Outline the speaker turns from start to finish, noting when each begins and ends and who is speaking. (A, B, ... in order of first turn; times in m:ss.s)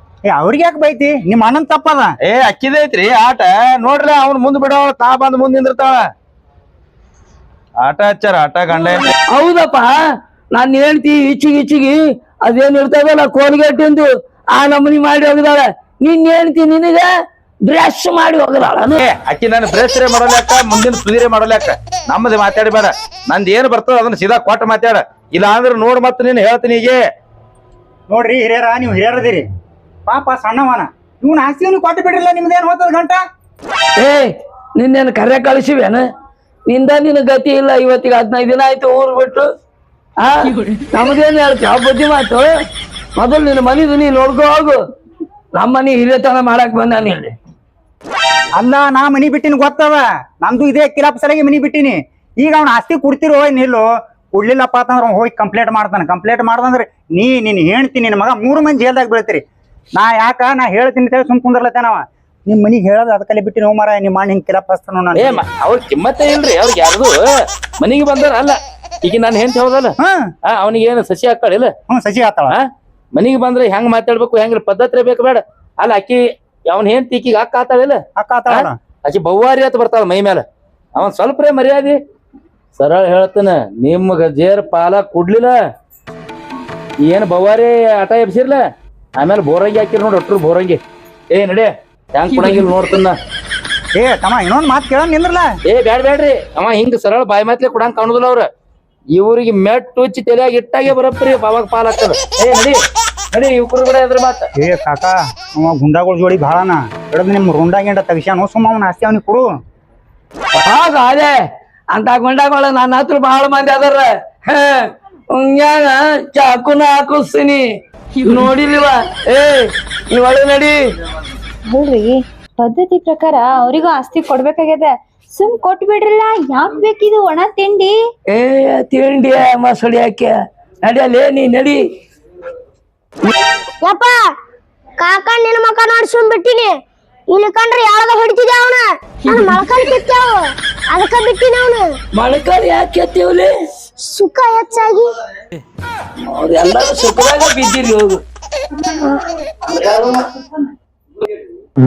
0:00.3-0:02.1 A
0:02.2-0:06.0 B
0:07.8-0:09.0 B
0:09.3-0:09.9 C
0:10.5-0:17.1 C
0:17.7-0:19.0 C
0:19.0-0:27.0 B
0:28.1-0:29.4 A
0:30.1-0:33.2 A
0:34.0-0:36.0 C
0:36.7-0:39.4 C
0:40.2-0:42.5 C
0:43.2-0:44.8 C
0:45.6-0:47.3 C
0:48.6-0:59.4 A
1:00.0-1:05.4 A
1:05.4-1:07.1 B
1:07.8-1:09.9 B
1:10.5-1:11.7 B
1:11.9-1:12.6 A
1:13.1-1:18.0 B
1:18.2-1:18.7 A
1:18.5-1:20.4 B
1:21.0-1:22.0 B
1:22.8-1:25.5 B
1:27.0-1:28.6 B
1:29.2-1:30.8 B
1:31.3-1:33.1 B
1:34.0-1:35.4 A
1:35.7-1:38.5 B
1:39.1-1:42.8 B
1:43.3-1:44.4 B
1:44.6-1:49.5 A
1:50.6-1:51.4 C
1:51.9-1:57.6 C
1:58.2-2:00.8 C
2:01.7-2:07.9 D
2:08.3-2:11.8 C
2:13.8-2:14.2 E
2:15.0-2:16.7 E
2:17.3-2:21.9 E
2:22.1-2:23.5 C
2:24.0-2:25.2 E
2:26.2-2:28.2 C
2:29.6-2:30.6 C